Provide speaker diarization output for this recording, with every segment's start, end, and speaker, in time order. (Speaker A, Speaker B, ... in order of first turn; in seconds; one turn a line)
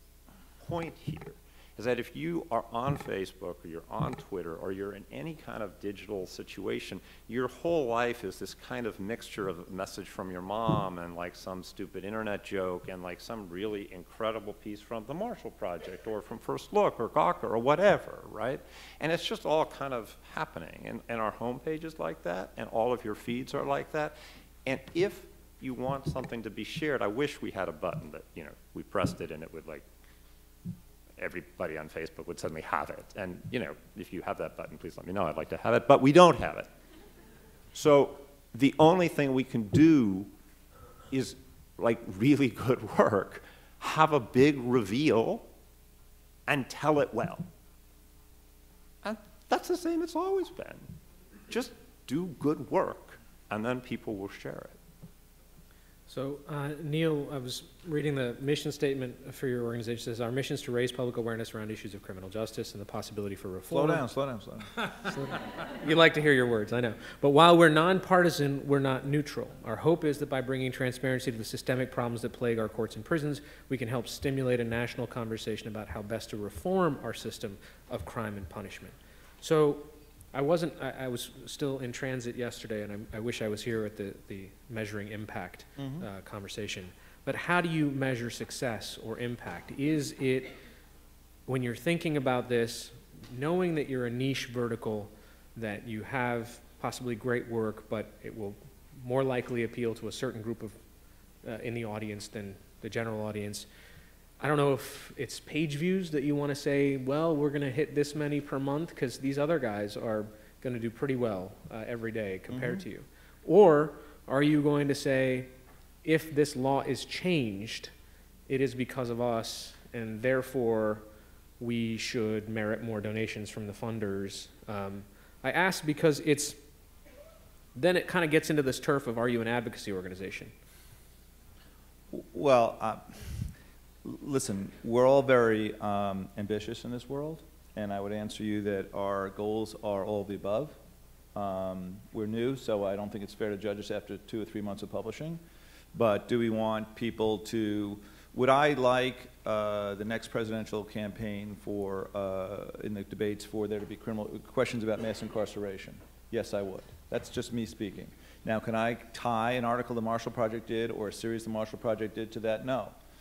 Speaker A: 0.6-29.9
Speaker A: 31.2-36.7
Speaker A: 37.7-40.3
Speaker A: 41.1-45.5
Speaker A: 46.5-47.5
Speaker A: 49.0-50.9
Speaker A: 51.5-54.8
Speaker B: 56.1-64.1
Speaker C: 63.7-64.7
Speaker B: 65.0-90.6
Speaker C: 85.8-86.0
Speaker B: 91.5-100.8
Speaker B: 101.4-103.7
Speaker B: 104.4-115.5
Speaker C: 112.5-112.8
Speaker B: 116.0-117.9
Speaker B: 118.5-121.0
Speaker B: 121.6-126.6
Speaker B: 127.8-130.5
Speaker C: 132.1-133.4
Speaker C: 134.0-140.8
Speaker C: 141.3-145.4
Speaker C: 145.9-162.9